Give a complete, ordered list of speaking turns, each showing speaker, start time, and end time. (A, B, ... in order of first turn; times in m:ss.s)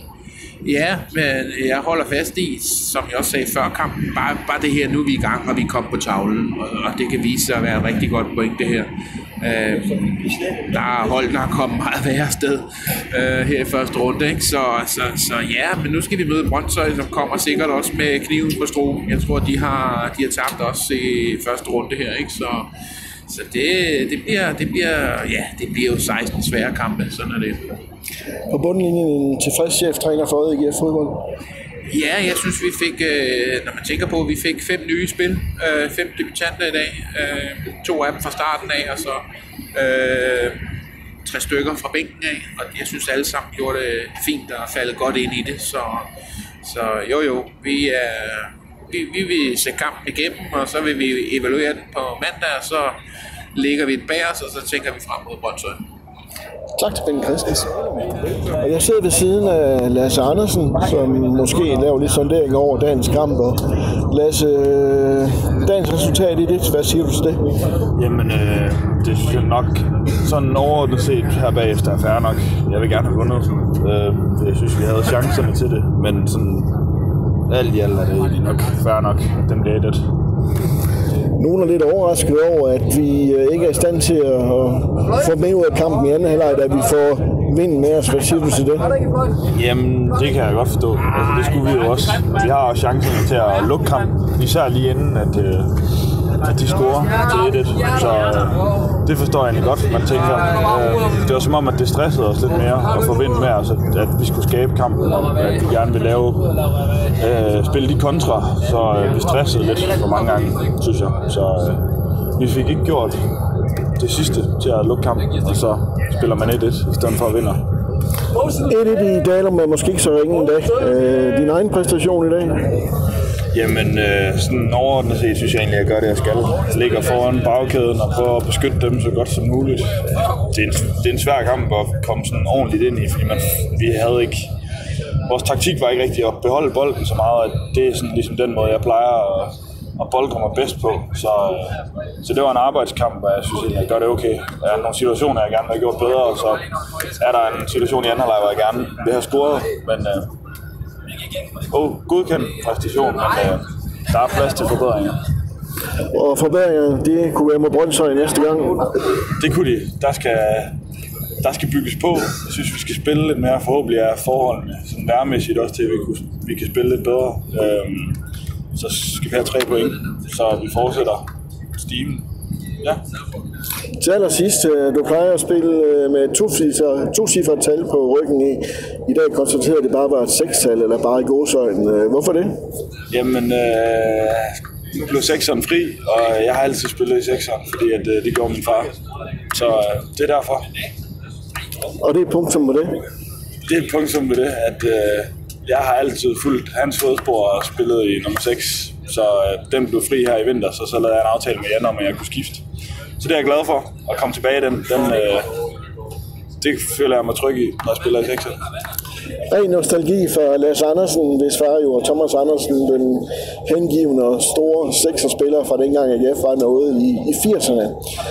0:00.6-0:22.7 A
0:23.3-0:27.7 A
0:28.5-0:31.2 B
0:31.9-0:40.6 A
0:41.2-0:46.1 A
0:46.6-0:53.0 A
0:53.5-0:55.8 A
0:56.8-1:07.5 B
1:08.0-1:16.7 C
1:17.5-1:20.1 C
1:21.4-1:29.0 B
1:29.5-1:35.7 C
1:36.4-1:46.6 C
1:47.2-1:51.8 C
1:52.4-1:53.3 C
1:54.0-1:57.6 C
1:58.5-2:02.7 B
2:03.5-2:14.5 C
2:15.3-2:30.3 C
2:31.7-2:35.2 C
2:36.1-2:38.9 B
2:39.4-2:40.8 C
2:41.4-2:48.2 C
2:48.7-2:51.3 C
2:51.8-2:52.2 C
2:54.0-3:02.5 B
3:03.1-3:08.9 C
3:09.5-3:10.7 C
3:12.0-3:13.0 B
3:13.7-3:22.6 C
3:23.2-3:25.5 C
3:26.6-3:28.6 C
3:29.5-3:38.0 B